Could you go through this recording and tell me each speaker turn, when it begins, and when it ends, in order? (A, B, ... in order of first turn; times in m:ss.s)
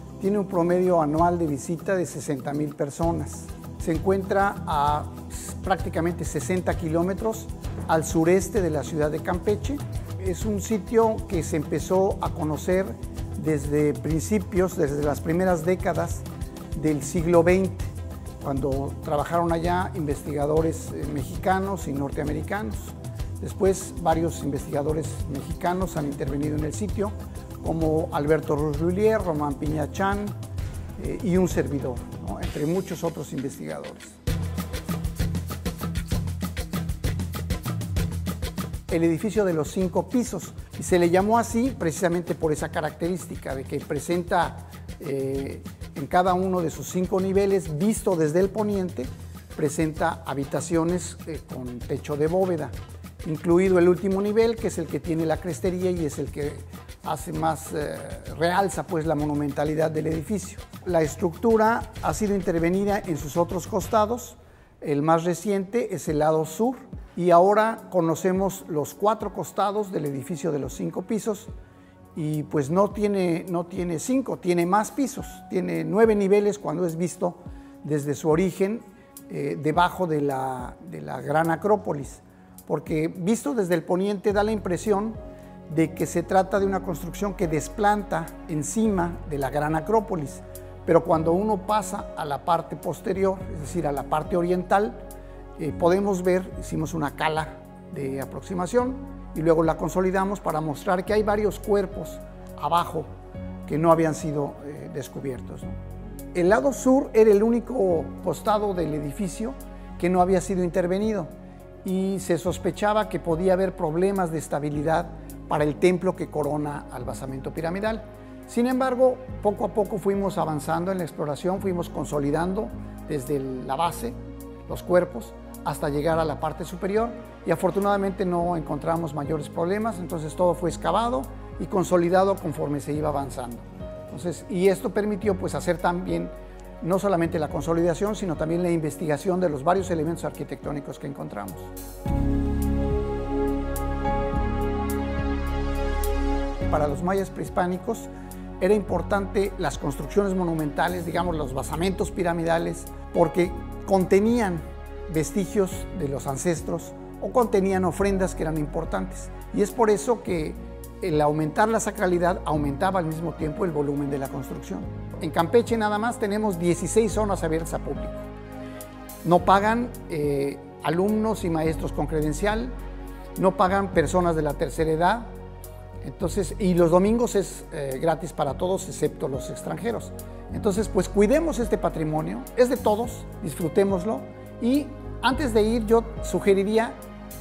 0:00.2-0:30.3 A
0:31.0-0:34.2 A
0:38.9-1:11.5 A
1:12.1-1:25.2 A
1:25.7-1:35.0 A
1:35.6-1:43.1 A
1:43.6-1:45.8 A
1:46.3-1:51.3 A
1:51.8-2:04.2 A
2:04.7-2:21.7 A
2:26.7-2:48.3 A
2:49.2-2:52.7 A
2:53.4-2:55.3 A
2:56.0-3:07.0 A